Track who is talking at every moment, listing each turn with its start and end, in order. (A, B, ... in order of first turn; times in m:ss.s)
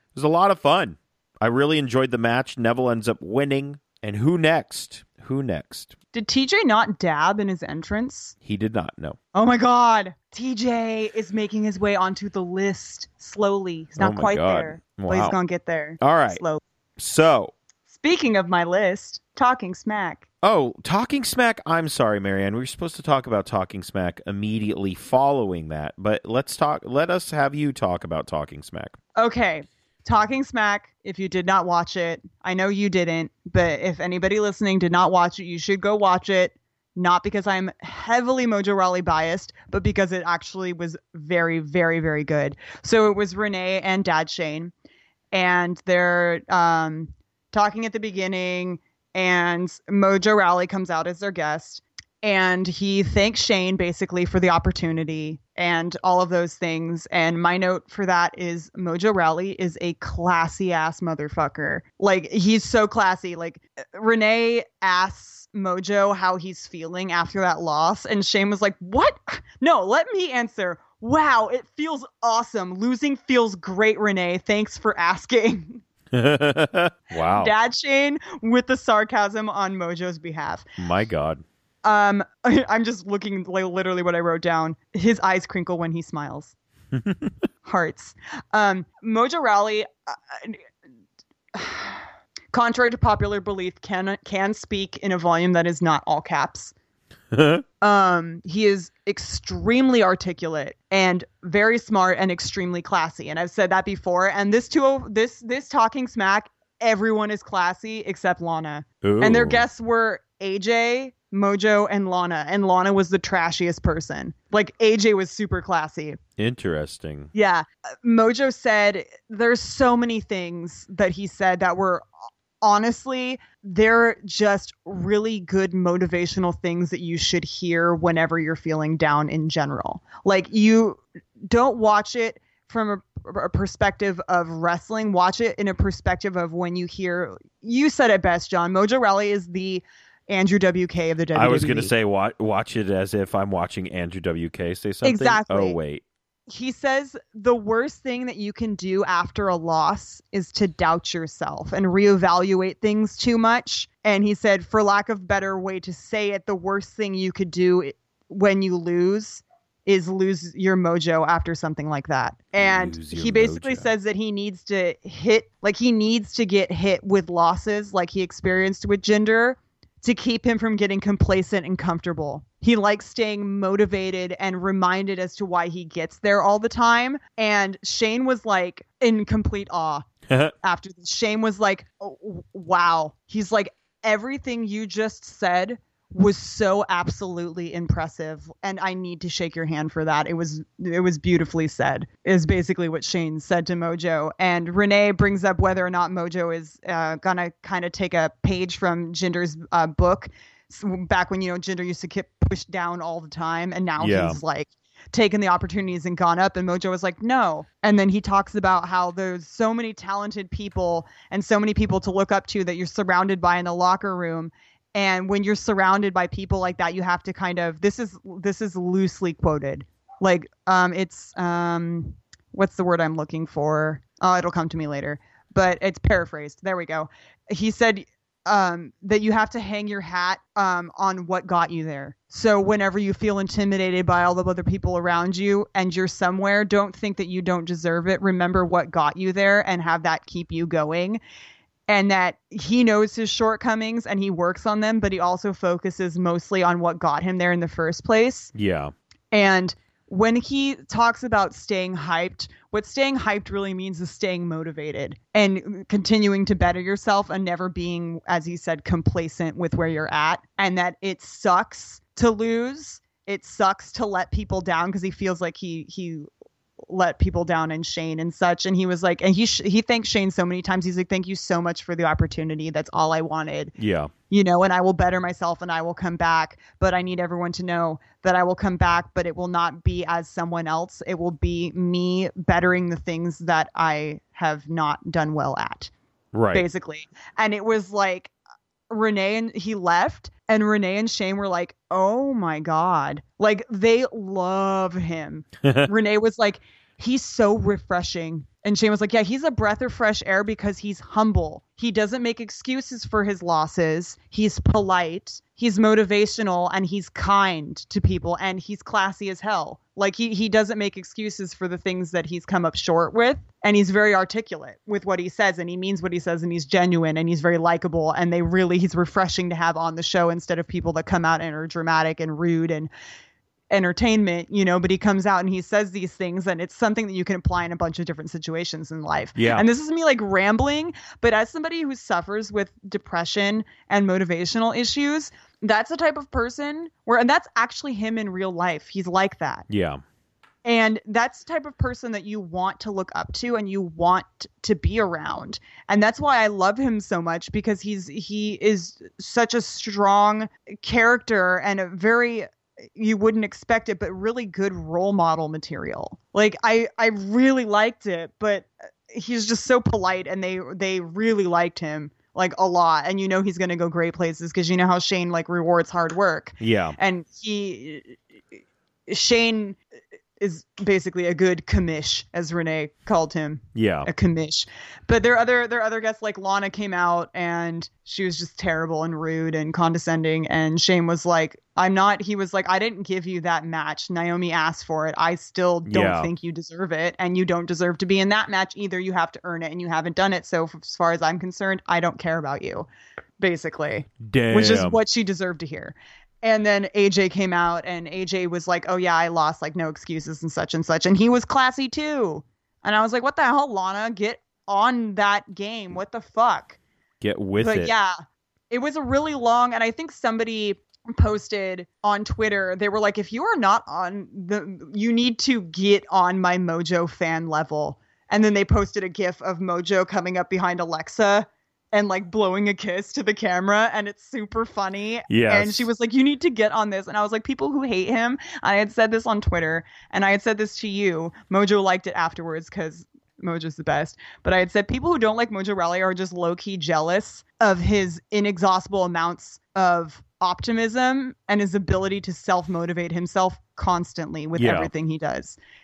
0:00.1-0:05.9 A
0:06.1-0:08.3 B
0:08.4-0:09.2 A
0:09.3-0:16.6 B
0:14.0-0:15.4 A
0:16.0-0:16.4 A
0:17.0-0:17.5 A
0:17.9-0:20.2 B
0:20.4-0:29.0 A
0:29.2-0:44.7 B
0:45.3-1:15.8 B
1:16.1-1:17.5 A
1:17.2-1:20.6 B
1:20.8-1:21.4 A
1:21.8-1:26.5 B
1:26.9-1:27.3 A
1:27.6-1:30.6 B
1:31.5-1:36.7 B
1:37.3-1:37.6 A
1:37.8-1:56.2 B
1:49.0-1:49.6 A
1:56.4-1:57.3 A
1:57.3-2:02.1 B
2:02.6-2:21.9 B
2:21.3-2:26.0 A
2:25.0-2:25.8 B
2:26.5-3:00.0 B
2:42.5-2:43.9 A
3:00.3-3:00.5 A
3:00.6-4:01.2 B
3:24.0-3:24.4 A
4:01.9-4:08.5 B
4:08.5-4:08.9 A
4:09.3-4:26.3 B
4:26.9-4:33.7 B
4:33.8-4:34.1 A
4:34.3-4:45.9 B
4:46.3-4:46.7 A
4:46.5-4:48.3 B
4:48.9-5:22.9 B
4:55.6-4:55.9 A
5:23.7-5:39.7 B
5:29.4-5:29.6 A
5:39.7-5:40.0 A
5:40.6-6:08.2 B
6:06.6-6:07.0 A
6:09.1-6:09.8 B
6:10.4-6:32.9 B
6:13.7-6:14.1 A
6:25.9-6:26.3 A
6:33.4-6:46.8 B
6:34.2-6:35.0 A
6:47.2-6:47.9 A
6:47.6-6:48.1 B
6:48.7-7:25.6 B
7:05.3-7:05.9 A
7:24.6-7:24.9 A